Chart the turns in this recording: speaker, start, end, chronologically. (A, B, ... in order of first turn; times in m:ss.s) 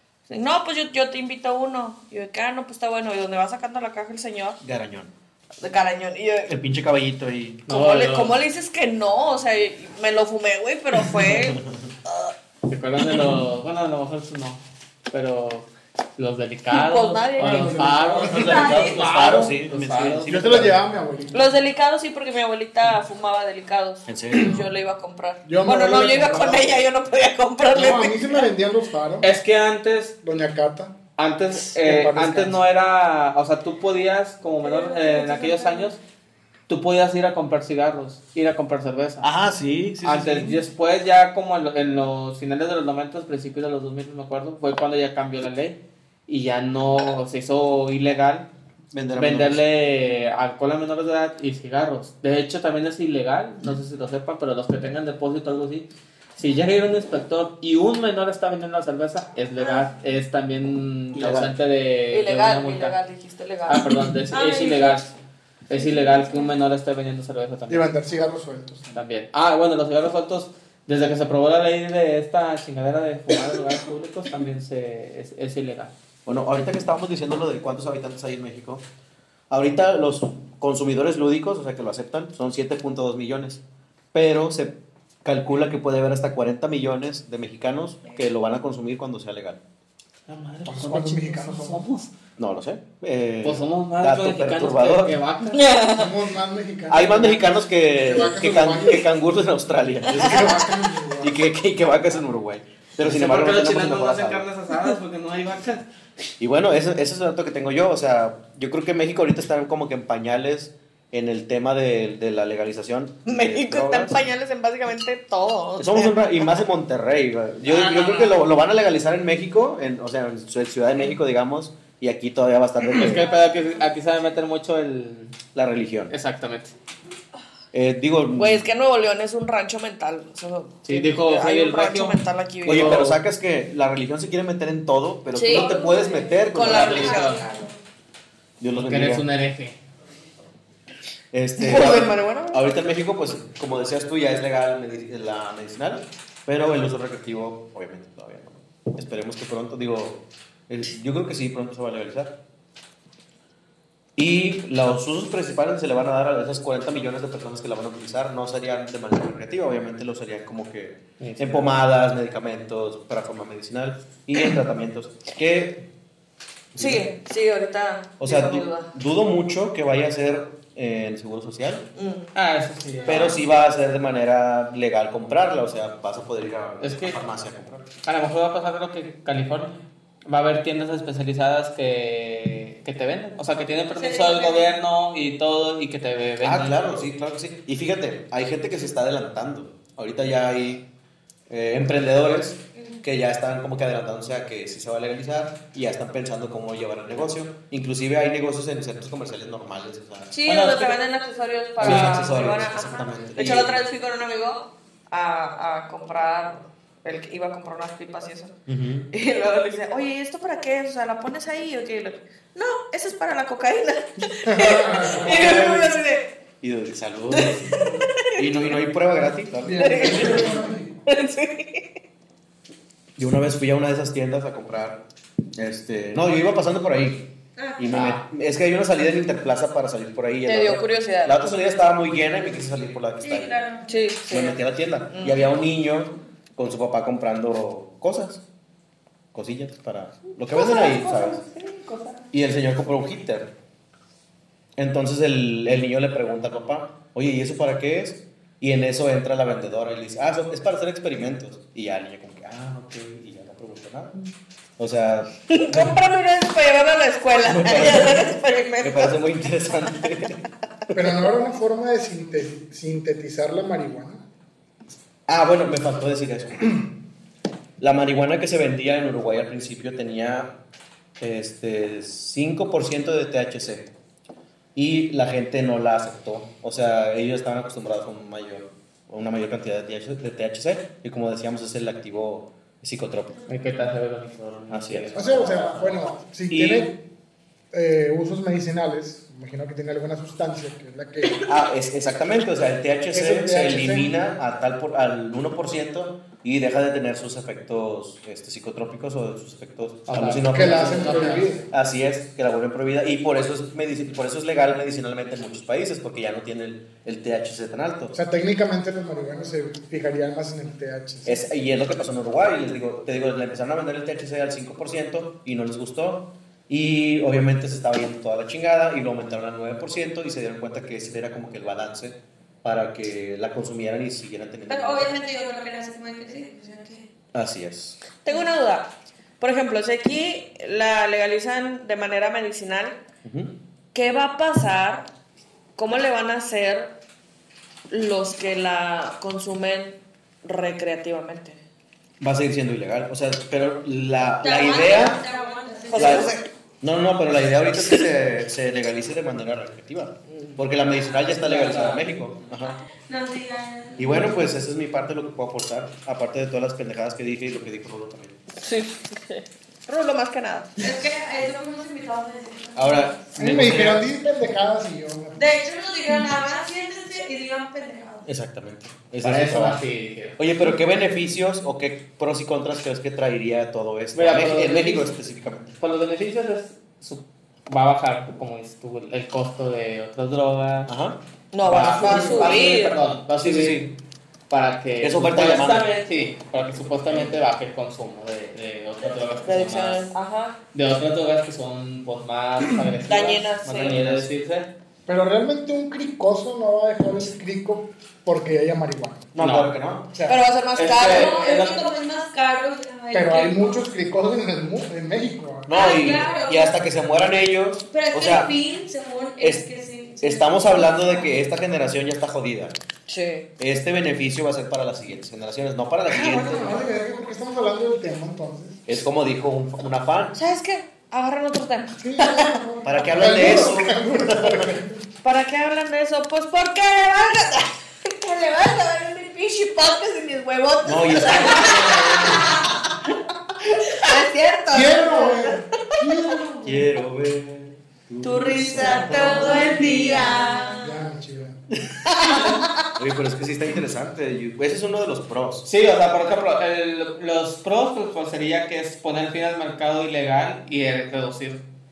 0:00.3-0:04.6 A
0:04.6-0:05.1 B
0:05.6-0:06.5 A
0:06.5-0:07.7 B
0:07.7-0:08.4 C
0:07.7-0:12.3 A
0:12.7-0:20.3 C
0:16.7-0:17.8 A
0:17.4-0:19.4 D
0:18.3-0:20.8 B
0:18.3-0:19.1 E
0:20.2-0:21.4 D
0:21.3-0:28.5 A
0:24.1-0:24.6 B
0:25.4-0:26.6 D
0:27.7-0:29.3 D
0:29.2-0:30.2 C
0:30.2-0:31.0 D
0:31.2-0:36.0 C
0:31.8-0:32.6 D
0:34.6-0:35.9 E
0:36.7-0:39.3 C
0:39.2-0:40.6 B
0:40.0-0:48.5 C
0:48.9-0:49.6 B
0:49.1-1:03.0 C
0:59.6-0:59.9 E
1:01.1-1:01.5 B
1:02.1-1:03.8 A
1:03.7-1:05.1 C
1:04.3-1:05.1 E
1:05.7-1:07.9 C
1:05.8-1:06.5 E
1:07.7-1:09.0 D
1:08.9-1:15.9 C
1:16.2-1:18.8 B
1:19.5-1:23.6 B
1:24.1-1:29.6 B
1:30.3-1:32.1 C
1:30.6-1:31.8 D
1:32.4-1:35.2 B
1:33.4-1:35.7 C
1:35.5-1:36.1 A
1:35.9-1:39.0 D
1:36.9-1:40.7 B
1:40.1-1:41.4 D
1:41.2-1:44.4 B
1:43.0-1:45.8 C
1:46.4-1:54.2 B
1:53.2-1:56.6 A
1:55.8-2:03.3 B
1:57.7-1:58.4 A
2:02.9-2:05.4 C
2:05.5-2:06.1 B
2:06.1-2:06.7 C
2:07.7-2:08.6 B
2:08.4-2:13.0 A
2:10.8-2:13.2 C
2:12.6-2:17.3 B
2:15.3-2:15.9 A
2:15.4-2:17.8 E
2:16.5-2:17.6 A
2:16.6-2:17.4 C
2:18.6-2:19.2 B
2:18.7-2:19.8 C
2:21.3-2:32.4 B
2:21.6-2:22.6 A
2:34.2-2:45.8 B
2:41.2-2:41.7 C
2:46.7-2:47.1 B
2:46.8-2:48.9 A
2:48.2-2:51.9 B
2:52.0-2:52.3 A
2:52.3-2:53.4 C
2:53.0-2:57.8 B
2:56.8-2:57.2 C
2:58.0-3:06.9 C
3:03.9-3:04.8 E
3:06.4-3:10.9 B
3:11.5-3:20.3 B
3:12.8-3:13.0 E
3:20.3-3:28.6 A
3:20.5-3:21.0 C
3:21.8-3:23.8 B
3:21.8-3:22.4 C
3:28.7-3:29.1 B
3:29.1-3:36.3 A
3:34.4-3:35.6 D
3:35.2-3:35.9 B
3:36.6-3:40.7 B
3:37.3-3:38.4 A
3:39.6-3:41.0 D
3:39.8-3:40.4 A
3:41.0-3:41.9 A
3:43.2-3:45.0 B
3:45.5-3:53.6 B
3:47.6-3:47.9 E
3:47.9-3:48.2 C
3:50.4-3:51.4 A
3:53.2-3:54.0 E
3:53.8-3:55.5 A
3:54.3-3:58.4 B
3:59.3-4:01.4 B
4:00.6-4:02.2 C
4:02.3-4:03.5 B
4:04.8-4:14.2 B
4:14.8-4:16.0 B
4:15.5-4:19.2 A
4:17.4-4:21.2 B
4:20.9-4:24.2 D
4:25.3-4:26.9 B
4:27.8-4:30.5 B
4:31.2-4:33.9 B
4:34.7-4:43.4 B
4:43.5-4:45.9 C
4:44.7-4:45.9 B
4:45.1-4:47.0 D
4:46.5-4:46.9 B
4:47.7-4:51.5 D
4:51.4-5:08.2 B
4:53.1-4:54.1 D
5:00.1-5:01.5 C
5:00.5-5:01.6 D
5:08.1-5:11.4 D
5:11.2-5:25.1 B
5:24.7-5:27.1 E
5:27.3-5:28.0 B
5:28.2-5:33.0 A
5:33.2-5:33.6 B
5:33.9-5:35.1 A
5:35.8-5:37.0 A
5:37.9-5:41.6 A
5:42.2-5:45.2 B
5:44.4-5:46.3 E
5:45.9-5:46.5 A
5:45.9-5:52.8 B
5:51.2-5:52.0 C
5:52.7-5:54.6 E
5:54.0-5:58.4 B
5:58.6-6:00.8 A
6:00.8-6:03.3 E
6:02.7-6:04.1 B
6:03.4-6:05.4 D
6:05.4-6:08.3 E
6:08.2-6:09.8 B
6:09.2-6:10.4 C
6:10.4-6:15.8 B
6:14.1-6:15.1 C
6:15.8-6:20.9 C
6:20.9-6:22.5 B
6:21.5-6:23.0 A
6:21.6-6:23.9 C
6:23.4-6:24.0 B
6:24.5-6:30.1 C
6:25.0-6:25.9 B
6:29.4-6:30.6 A
6:30.7-6:34.7 C
6:33.1-6:34.0 A
6:33.6-6:34.3 B
6:35.1-6:39.3 D
6:39.3-6:40.1 B
6:39.4-6:39.7 C
6:40.2-6:41.9 A
6:40.8-6:41.8 C
6:41.0-6:43.7 E
6:43.1-6:46.3 D
6:45.7-6:48.5 B
6:45.7-6:46.8 E
6:47.9-6:51.5 E
6:49.4-6:49.6 B
6:50.2-6:52.8 B
6:53.1-6:53.5 A
6:53.6-6:56.9 B
6:56.1-6:58.8 D
6:58.9-7:00.4 B
7:00.3-7:02.6 A
7:02.0-7:05.0 D
7:02.8-7:04.8 B
7:05.2-7:12.9 A
7:10.8-7:12.5 B
7:13.8-7:16.0 A
7:14.7-7:16.8 D
7:16.6-7:20.2 B
7:18.2-7:21.0 A
7:18.7-7:20.8 E
7:20.8-7:21.6 D
7:22.1-7:22.9 A
7:23.0-7:25.7 B
7:25.6-7:31.6 C